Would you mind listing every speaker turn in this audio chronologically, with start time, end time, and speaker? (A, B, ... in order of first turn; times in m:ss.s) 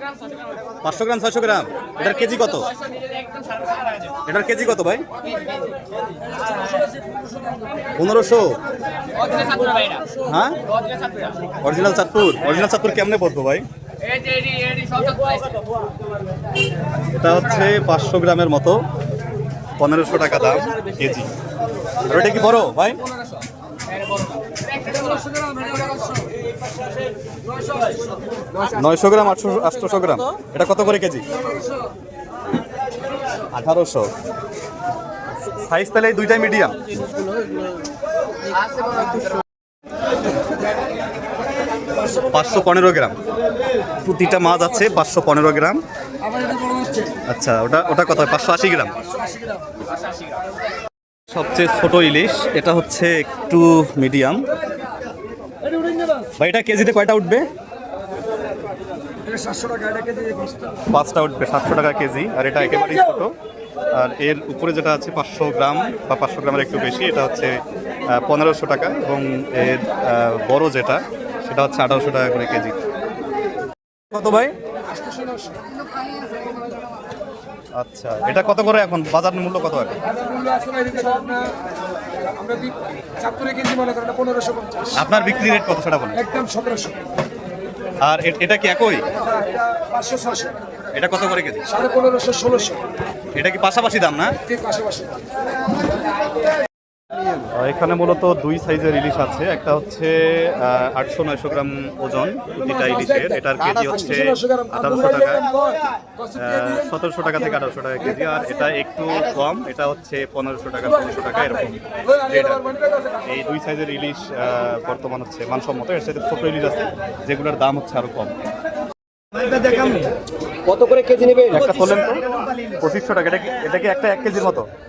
0:00.8-0:02.8 A
0:04.2-0:05.0 A
0:08.0-0:08.6 A
0:10.1-0:10.6 A
0:11.6-0:13.6 A
0:17.1-0:18.8 A
0:19.8-0:21.3 A
0:22.0-0:23.0 A
0:25.4-0:25.7 B
0:28.7-0:31.3 A
0:33.5-0:34.1 A
0:35.6-0:36.8 A
0:42.2-0:43.2 A
0:44.0-0:45.8 A
0:47.3-0:49.0 A
0:51.3-0:54.5 A
0:56.4-0:57.4 A
0:59.3-1:00.5 B
1:00.9-1:03.3 A
1:03.9-1:07.5 A
1:08.1-1:12.8 A
1:14.1-1:14.5 A
1:15.0-1:15.6 B
1:17.8-1:20.0 A
1:20.4-1:21.5 B
1:22.4-1:24.9 B
1:24.9-1:26.3 A
1:26.3-1:27.0 B
1:28.0-1:29.1 A
1:29.5-1:30.5 B
1:30.9-1:31.7 A
1:31.9-1:32.8 B
1:33.4-1:34.4 A
1:34.6-1:35.1 B
1:37.6-1:45.5 A
1:46.3-1:52.7 A
1:53.2-1:58.3 A
1:59.3-2:00.1 C
2:00.7-2:02.6 C
2:01.5-2:04.7 A